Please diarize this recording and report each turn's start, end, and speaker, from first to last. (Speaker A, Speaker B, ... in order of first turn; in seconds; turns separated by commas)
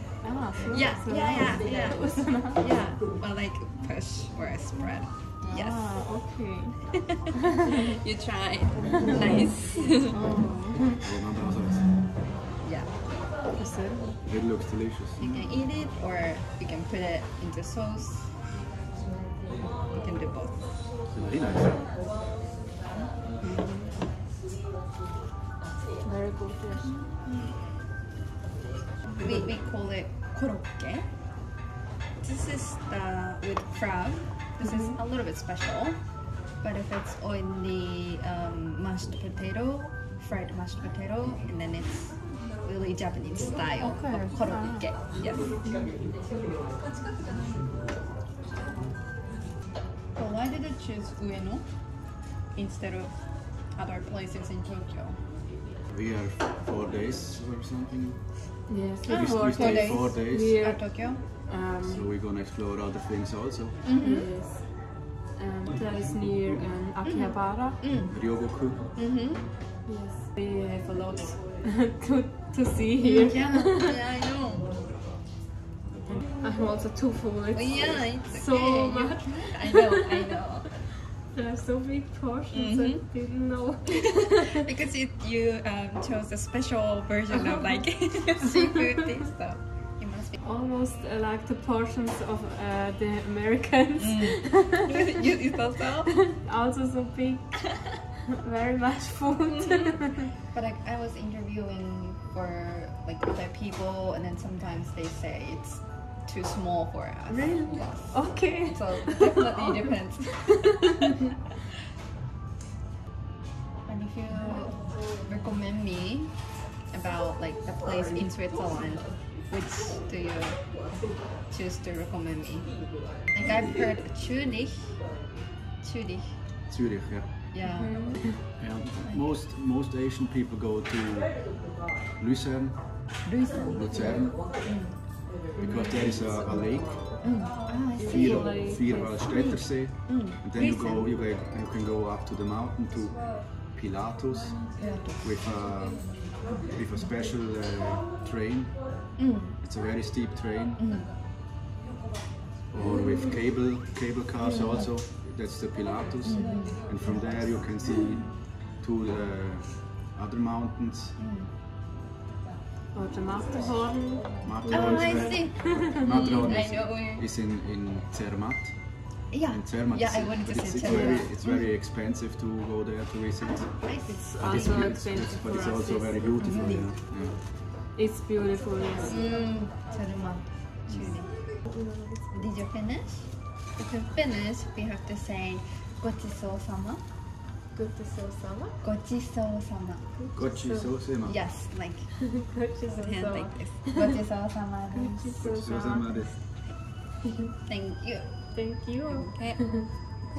Speaker A: 0.2-2.8, Speaker B: 0.7-6.0, Speaker A: 5.4-7.5, Speaker B: 7.7-10.2, Speaker A: 9.1-11.0, Speaker C: 11.0-12.0, Speaker B: 12.6-13.0, Speaker A: 13.5-14.2, Speaker C: 14.2-15.6, Speaker B: 15.2-18.4, Speaker B: 19.6-20.8, Speaker C: 21.1-21.9, Speaker A: 23.4-24.0, Speaker A: 26.0-27.0, Speaker B: 26.8-27.7, Speaker B: 29.1-31.1, Speaker B: 32.2-45.6, Speaker A: 34.6-35.0, Speaker A: 43.8-45.9, Speaker B: 50.1-55.2, Speaker C: 55.9-60.6, Speaker A: 58.7-62.1, Speaker B: 59.1-61.3, Speaker C: 61.8-63.8, Speaker B: 63.8-64.3, Speaker A: 63.9-67.8, Speaker B: 67.0-68.1, Speaker C: 68.0-68.8, Speaker B: 69.0-69.5, Speaker A: 69.8-74.0, Speaker B: 73.0-74.8, Speaker A: 76.0-80.1, Speaker B: 77.5-80.8, Speaker A: 81.2-84.6, Speaker B: 82.5-83.1, Speaker B: 83.9-90.4, Speaker A: 87.3-88.8, Speaker A: 90.4-94.8, Speaker B: 94.0-96.2, Speaker A: 95.4-100.4, Speaker B: 99.5-99.8, Speaker B: 100.5-111.1, Speaker A: 107.3-110.0, Speaker B: 113.8-125.2, Speaker B: 125.8-126.5, Speaker C: 126.7-127.3, Speaker B: 127.5-129.3, Speaker A: 127.7-128.6, Speaker C: 128.6-134.7, Speaker B: 133.2-135.2, Speaker A: 135.5-136.3, Speaker C: 135.6-137.2, Speaker B: 137.2-138.7, Speaker A: 137.7-139.5, Speaker C: 138.0-150.8, Speaker B: 139.3-141.1, Speaker B: 144.8-145.4, Speaker B: 149.2-149.6, Speaker B: 150.8-151.1, Speaker C: 152.7-161.2, Speaker B: 154.4-155.0, Speaker B: 156.2-157.1, Speaker B: 161.2-161.5, Speaker A: 162.9-166.6, Speaker C: 164.4-177.4, Speaker B: 164.7-167.3, Speaker B: 169.3-171.7, Speaker A: 170.8-171.2, Speaker B: 173.4-174.8, Speaker A: 174.0-176.5, Speaker B: 176.4-177.0, Speaker A: 177.9-179.4, Speaker B: 179.0-181.4, Speaker A: 180.9-182.6, Speaker B: 182.3-187.1, Speaker A: 187.7-188.8, Speaker B: 188.8-190.0, Speaker A: 190.1-191.1, Speaker C: 190.3-191.4, Speaker B: 191.2-195.4, Speaker A: 192.3-194.2, Speaker A: 194.9-196.4, Speaker C: 195.4-196.4, Speaker B: 197.7-200.1, Speaker A: 198.5-199.8